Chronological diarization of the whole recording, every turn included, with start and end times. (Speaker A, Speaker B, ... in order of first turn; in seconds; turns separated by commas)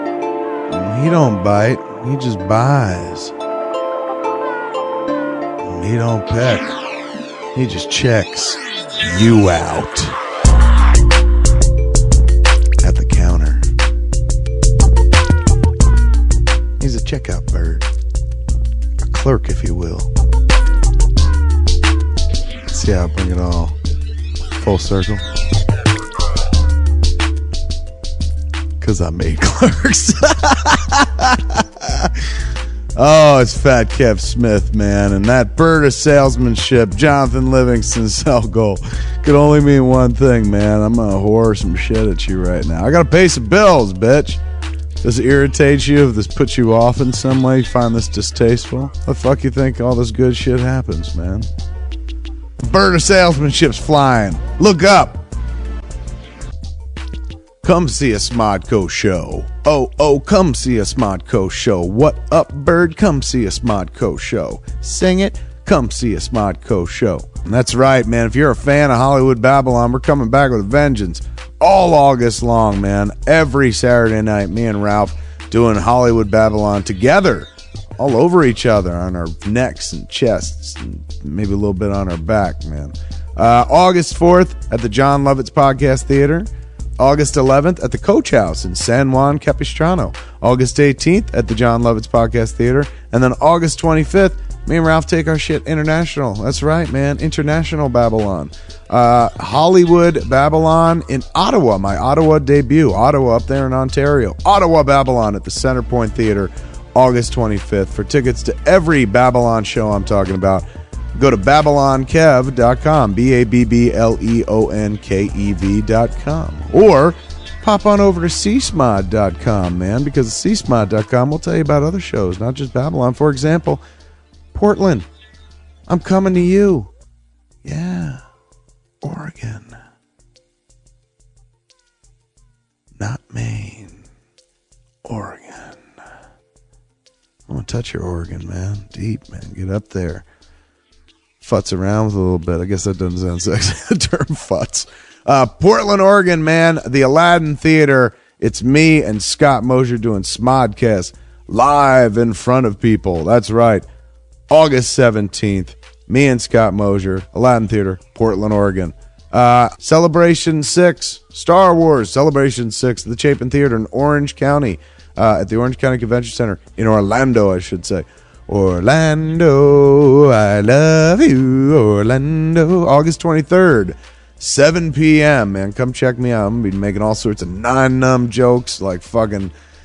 Speaker A: 0.7-3.3, Speaker A: 5.6-6.7, Speaker A: 7.5-10.2, Speaker A: 12.8-13.7, Speaker A: 16.8-17.9, Speaker A: 19.0-20.1, Speaker A: 22.7-23.8, Speaker A: 24.6-25.2, Speaker A: 28.8-32.3, Speaker A: 32.9-44.4, Speaker A: 45.0-51.5, Speaker A: 52.6-55.2, Speaker A: 57.6-110.6, Speaker A: 111.2-123.8, Speaker A: 124.5-125.0, Speaker A: 125.9-126.9, Speaker A: 127.6-128.2, Speaker A: 129.0-129.8, Speaker A: 133.0-134.0, Speaker A: 135.0-135.9, Speaker A: 137.5-140.2, Speaker A: 141.4-153.8, Speaker A: 154.5-179.5